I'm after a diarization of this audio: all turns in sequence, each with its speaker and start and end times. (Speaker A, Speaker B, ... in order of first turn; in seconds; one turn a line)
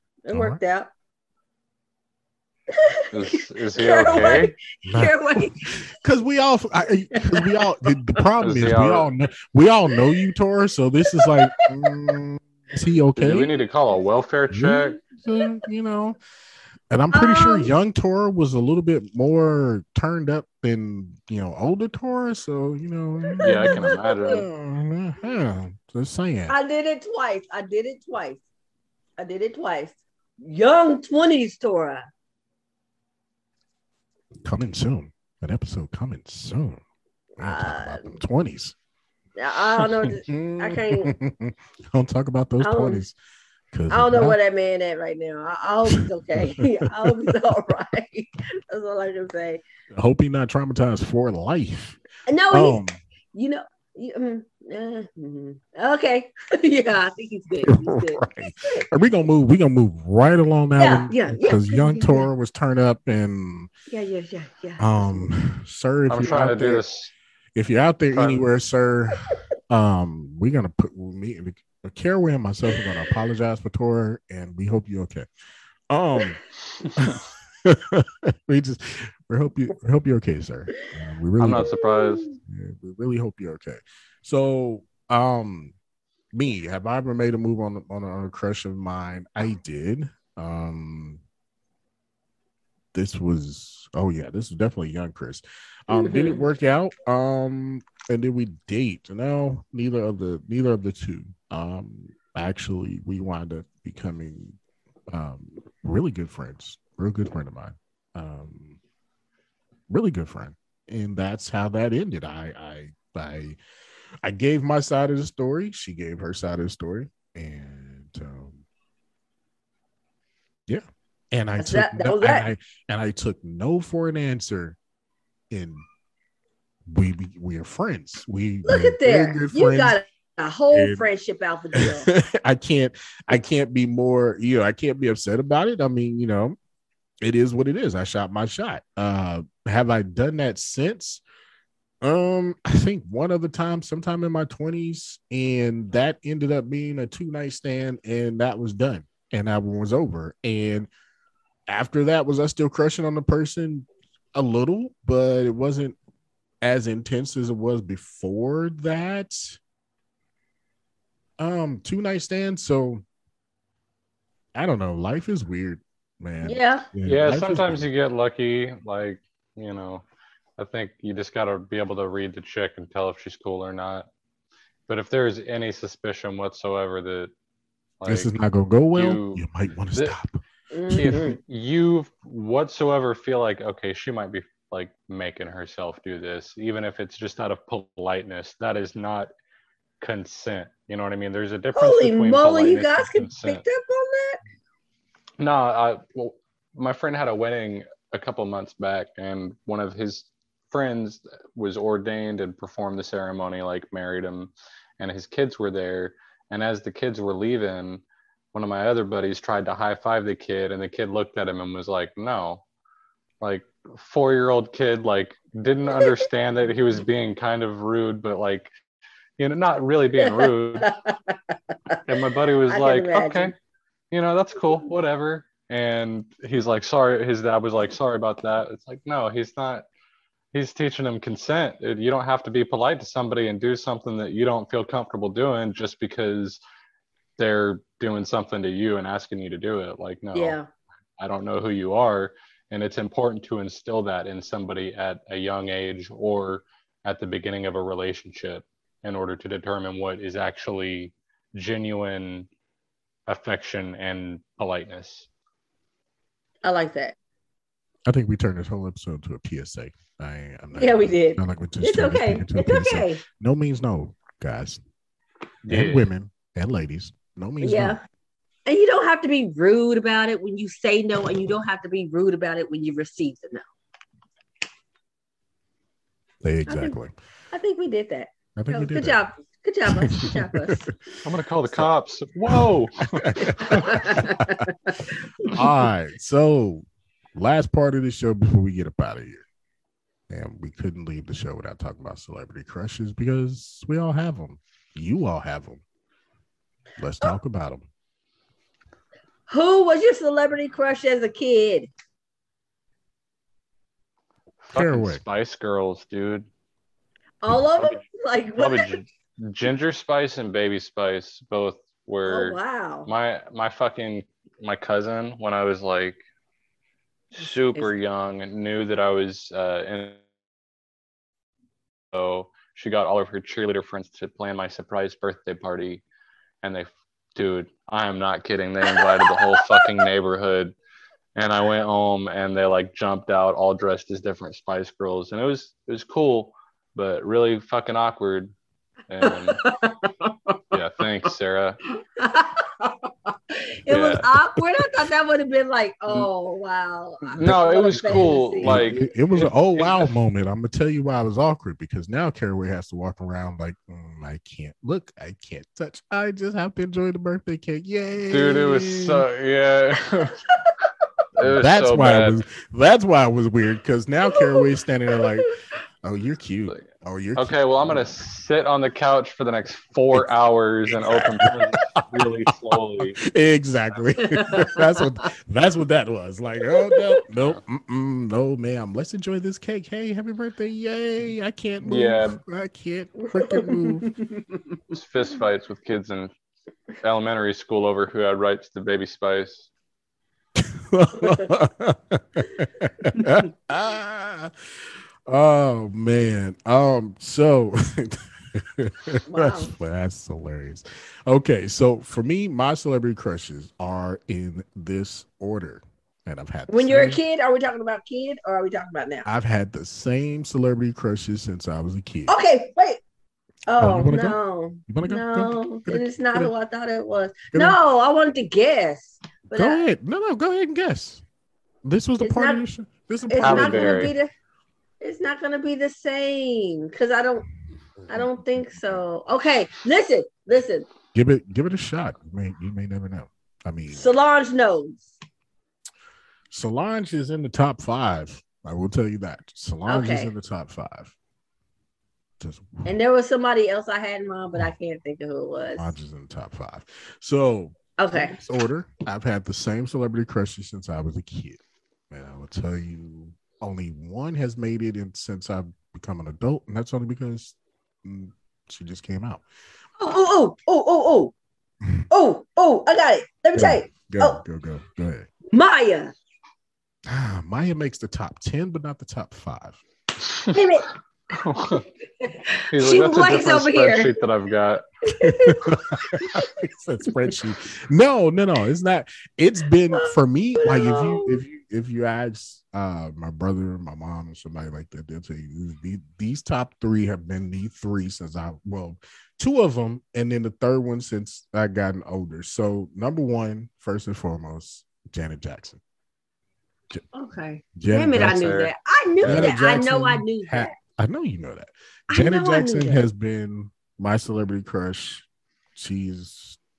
Speaker A: 0.2-0.9
Speaker B: 0.3-0.6
Speaker A: 2.7-5.8
Speaker C: 3.1-4.5
Speaker B: 4.8-13.5
Speaker A: 7.1-7.6
Speaker C: 8.4-9.1
Speaker A: 11.2-11.9
Speaker C: 13.2-15.0
Speaker B: 14.5-16.2
Speaker B: 16.9-26.6
Speaker A: 17.1-17.7
Speaker A: 23.4-24.4
Speaker C: 23.4-24.4
Speaker A: 26.5-28.4
Speaker A: 29.2-32.1
Speaker B: 34.4-36.8
Speaker A: 37.4-38.2
Speaker B: 37.4-38.8
Speaker A: 39.4-41.1
Speaker B: 40.3-43.1
Speaker A: 42.6-43.0
Speaker B: 43.7-44.4
Speaker A: 43.9-49.6
Speaker B: 45.9-47.3
Speaker B: 49.9-52.0
Speaker A: 52.3-52.8
Speaker B: 52.5-53.0
Speaker A: 53.3-58.9
Speaker B: 57.6-63.7
Speaker A: 60.8-62.3
Speaker A: 63.9-65.3
Speaker B: 64.8-66.8
Speaker C: 66.1-67.1
Speaker B: 67.5-75.3
Speaker C: 68.1-68.5
Speaker B: 75.9-76.4
Speaker B: 77.0-81.7
Speaker C: 81.4-82.2
Speaker A: 81.6-82.4
Speaker B: 82.5-85.7
Speaker B: 86.3-91.2
Speaker B: 92.9-104.6
Speaker A: 95.9-96.4
Speaker B: 105.1-108.8
Speaker B: 109.9-113.6
Speaker B: 114.2-118.6
Speaker B: 120.7-124.8
Speaker A: 121.6-122.5
Speaker B: 125.5-125.8
Speaker B: 126.8-130.0
Speaker A: 128.7-132.1
Speaker B: 130.7-131.0
Speaker B: 131.8-136.6
Speaker B: 137.2-141.2
Speaker B: 142.0-150.9
Speaker B: 151.7-155.9
Speaker B: 156.6-159.6
Speaker B: 161.4-163.0
Speaker B: 164.5-167.8
Speaker A: 166.4-166.8
Speaker C: 167.0-170.0
Speaker C: 170.6-174.1
Speaker C: 174.9-177.3
Speaker C: 178.0-178.3
Speaker B: 178.1-181.3
Speaker C: 178.9-180.1
Speaker A: 180.7-181.2
Speaker C: 180.9-189.3
Speaker C: 190.0-193.6
Speaker A: 191.7-194.4
Speaker C: 195.4-212.6
Speaker C: 213.4-218.7
Speaker C: 219.4-220.9
Speaker A: 220.2-222.0
Speaker C: 222.1-223.5
Speaker A: 222.7-223.5
Speaker C: 224.1-229.8
Speaker C: 230.5-236.6
Speaker C: 237.4-240.6
Speaker A: 240.3-240.7
Speaker C: 241.2-252.5
Speaker C: 253.3-255.3
Speaker A: 256.6-257.1
Speaker B: 258.1-264.8
Speaker A: 260.7-263.2
Speaker C: 265.6-266.1
Speaker B: 265.7-268.0
Speaker A: 267.6-268.0
Speaker A: 268.6-273.6
Speaker B: 276.4-277.1
Speaker A: 276.7-276.9
Speaker A: 277.5-280.8
Speaker B: 278.6-279.2
Speaker B: 279.9-281.2
Speaker C: 281.2-284.1
Speaker B: 282.5-284.7
Speaker A: 283.4-285.8
Speaker B: 285.4-289.4
Speaker B: 290.3-295.8
Speaker B: 297.0-297.9
Speaker A: 299.5-301.9
Speaker C: 304.6-306.5
Speaker B: 304.7-305.2
Speaker A: 307.4-309.0
Speaker C: 308.6-316.2
Speaker A: 312.3-313.1
Speaker C: 317.3-320.2
Speaker A: 317.4-317.9
Speaker C: 322.1-326.0
Speaker C: 326.6-330.7
Speaker A: 328.9-330.0
Speaker C: 331.3-338.5
Speaker C: 339.1-339.6
Speaker A: 339.2-340.6
Speaker C: 340.7-341.8
Speaker A: 342.1-349.0
Speaker C: 343.9-344.4
Speaker B: 347.4-359.2
Speaker C: 347.4-350.1
Speaker C: 358.3-360.4
Speaker A: 360.6-360.8
Speaker C: 361.4-362.4
Speaker B: 361.4-368.1
Speaker A: 364.3-365.2
Speaker C: 366.7-373.2
Speaker B: 370.9-384.2
Speaker A: 374.2-374.8
Speaker A: 376.9-377.2
Speaker C: 381.8-382.4
Speaker A: 383.4-384.3
Speaker C: 384.9-386.3
Speaker C: 387.0-389.7
Speaker B: 390.6-394.5
Speaker B: 395.3-407.2
Speaker A: 399.3-399.7
Speaker A: 406.7-409.3
Speaker B: 409.2-412.3
Speaker A: 412.3-413.0
Speaker A: 413.7-419.8
Speaker B: 413.8-416.5
Speaker B: 417.5-417.8
Speaker B: 419.6-421.2
Speaker B: 421.8-424.1
Speaker A: 422.2-422.6
Speaker A: 423.3-424.3
Speaker C: 423.4-424.1
Speaker A: 425.0-427.4
Speaker B: 428.0-429.0
Speaker A: 428.1-430.9
Speaker B: 431.1-434.1
Speaker A: 433.9-435.1
Speaker B: 436.5-441.1
Speaker A: 439.9-440.3
Speaker B: 442.4-442.9
Speaker A: 442.8-445.9
Speaker B: 445.8-459.4
Speaker A: 448.0-448.4
Speaker A: 460.0-461.3
Speaker A: 462.1-464.4
Speaker B: 463.5-465.3
Speaker A: 465.5-466.1
Speaker B: 467.1-469.8
Speaker C: 470.2-470.6
Speaker A: 470.5-470.9
Speaker C: 471.3-471.8
Speaker A: 472.2-474.1
Speaker C: 472.7-474.8
Speaker A: 475.1-476.5
Speaker B: 475.2-495.8
Speaker A: 479.9-481.4
Speaker A: 497.1-500.7
Speaker B: 497.8-498.5
Speaker C: 498.1-498.7
Speaker B: 499.2-506.6
Speaker A: 502.1-503.0